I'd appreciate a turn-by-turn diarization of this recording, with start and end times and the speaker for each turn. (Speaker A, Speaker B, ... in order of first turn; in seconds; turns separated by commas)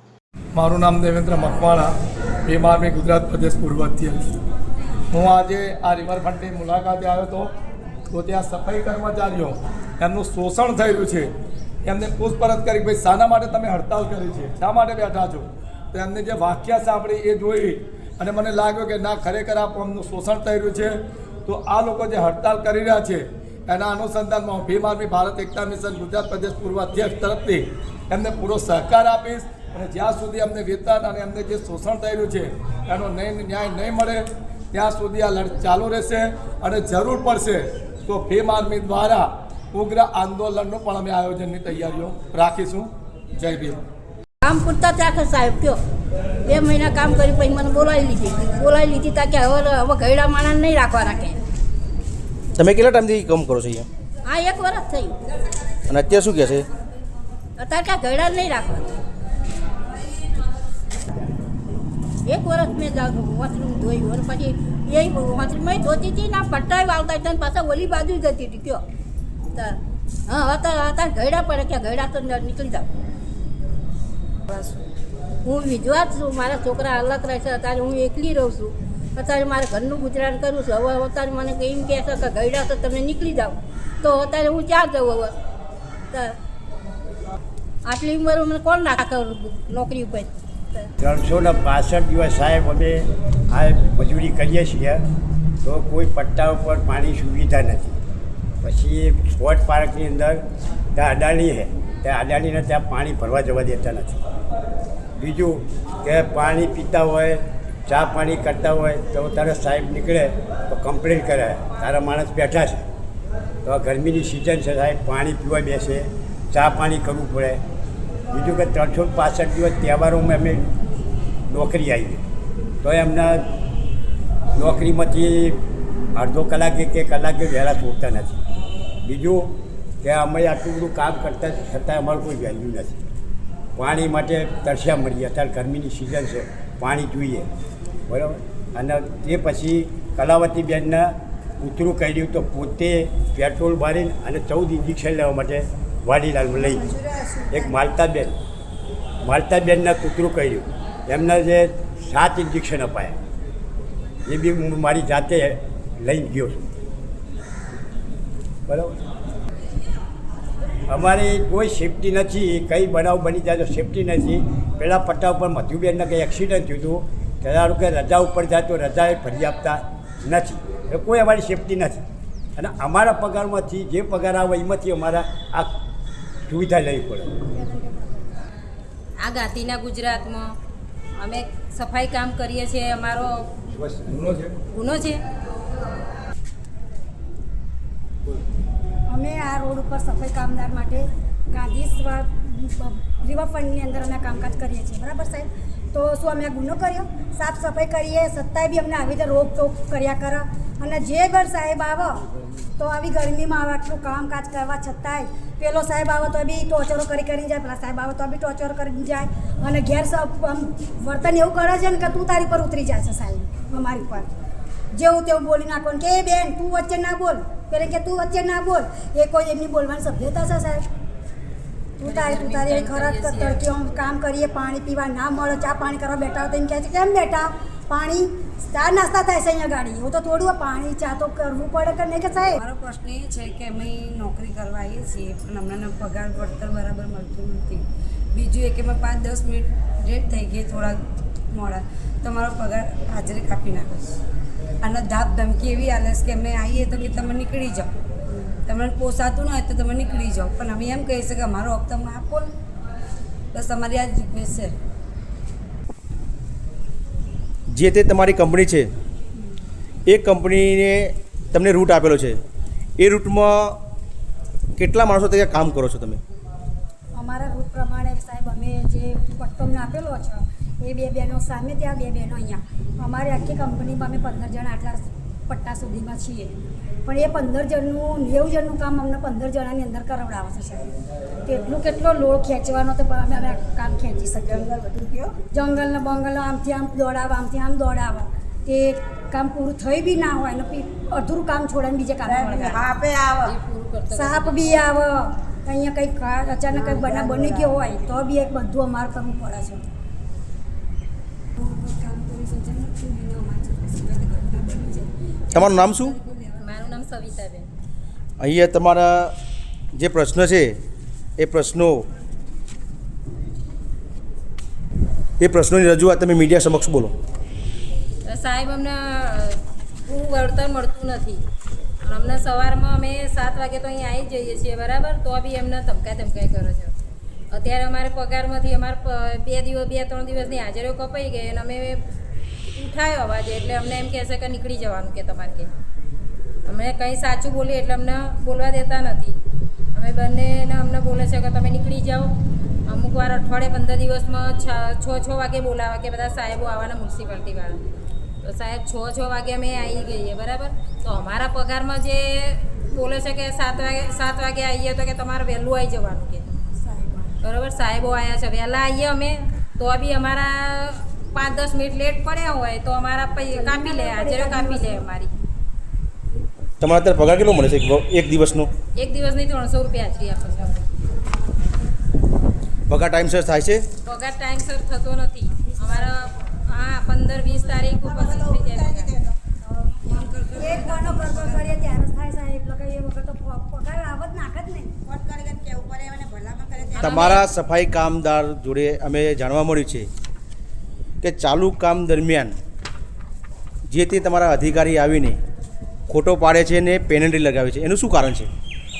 Speaker A: 0.5-1.9, Speaker A: 2.5-4.2, Speaker A: 5.1-7.5, Speaker A: 8.1-11.3, Speaker A: 11.8-20.9, Speaker A: 21.4-43.8, Speaker B: 44.4-45.8, Speaker B: 46.4-51.4, Speaker C: 52.5-53.9, Speaker B: 54.2-55.1, Speaker C: 55.9-56.7, Speaker B: 57.6-58.9, Speaker B: 62.2-68.8, Speaker B: 69.5-72.9, Speaker B: 75.4-85.3, Speaker B: 87.8-90.9, Speaker D: 91.0-95.0, Speaker D: 95.6-98.0, Speaker D: 98.6-104.2, Speaker D: 105.2-112.8, Speaker D: 113.6-117.6, Speaker D: 118.3-120.7, Speaker D: 121.5-122.2, Speaker D: 122.8-123.5, Speaker D: 124.5-125.6, Speaker D: 126.1-128.4, Speaker D: 129.0-129.5, Speaker D: 130.0-133.0, Speaker D: 133.8-137.5, Speaker D: 138.1-146.9, Speaker E: 146.6-147.7, Speaker D: 147.5-148.3, Speaker D: 149.2-153.2, Speaker D: 154.2-156.6, Speaker D: 158.7-159.0, Speaker D: 160.9-172.0, Speaker D: 172.6-175.7, Speaker D: 176.5-177.3, Speaker F: 177.5-178.3, Speaker G: 179.2-180.5, Speaker G: 181.2-183.3, Speaker D: 183.7-184.2, Speaker A: 184.1-184.5, Speaker G: 184.7-185.2, Speaker F: 189.1-202.2, Speaker F: 202.8-214.3, Speaker F: 214.9-220.8, Speaker F: 222.0-232.6, Speaker G: 222.0-223.6, Speaker E: 232.6-241.0, Speaker E: 241.5-244.2, Speaker E: 244.8-252.5, Speaker E: 253.5-254.8, Speaker C: 257.7-258.9, Speaker C: 260.1-262.4, Speaker C: 263.0-263.8, Speaker C: 264.8-266.2, Speaker F: 267.1-280.9, Speaker F: 281.4-284.7, Speaker E: 284.4-285.4, Speaker F: 285.5-292.8, Speaker E: 292.2-293.6, Speaker G: 293.4-294.8, Speaker F: 294.1-299.9, Speaker E: 296.7-298.1, Speaker E: 301.6-307.0, Speaker C: 305.5-306.2, Speaker G: 306.6-307.7, Speaker C: 308.4-309.3, Speaker C: 309.9-310.7, Speaker C: 311.4-312.1, Speaker C: 315.4-317.1, Speaker G: 318.2-321.4, Speaker G: 322.0-326.9, Speaker G: 327.5-332.0, Speaker G: 332.7-335.7, Speaker G: 336.6-339.4, Speaker G: 339.9-342.3, Speaker G: 342.9-347.8, Speaker G: 348.4-356.4, Speaker E: 356.7-357.4, Speaker G: 357.4-365.3, Speaker F: 363.4-365.1, Speaker C: 366.8-368.7, Speaker G: 368.9-370.8, Speaker C: 372.9-373.8, Speaker G: 374.0-379.1, Speaker E: 378.1-381.8, Speaker F: 380.6-385.0, Speaker E: 385.1-387.2, Speaker G: 387.0-387.5, Speaker C: 387.0-390.1, Speaker C: 391.2-392.5, Speaker C: 393.9-395.4, Speaker C: 396.1-398.5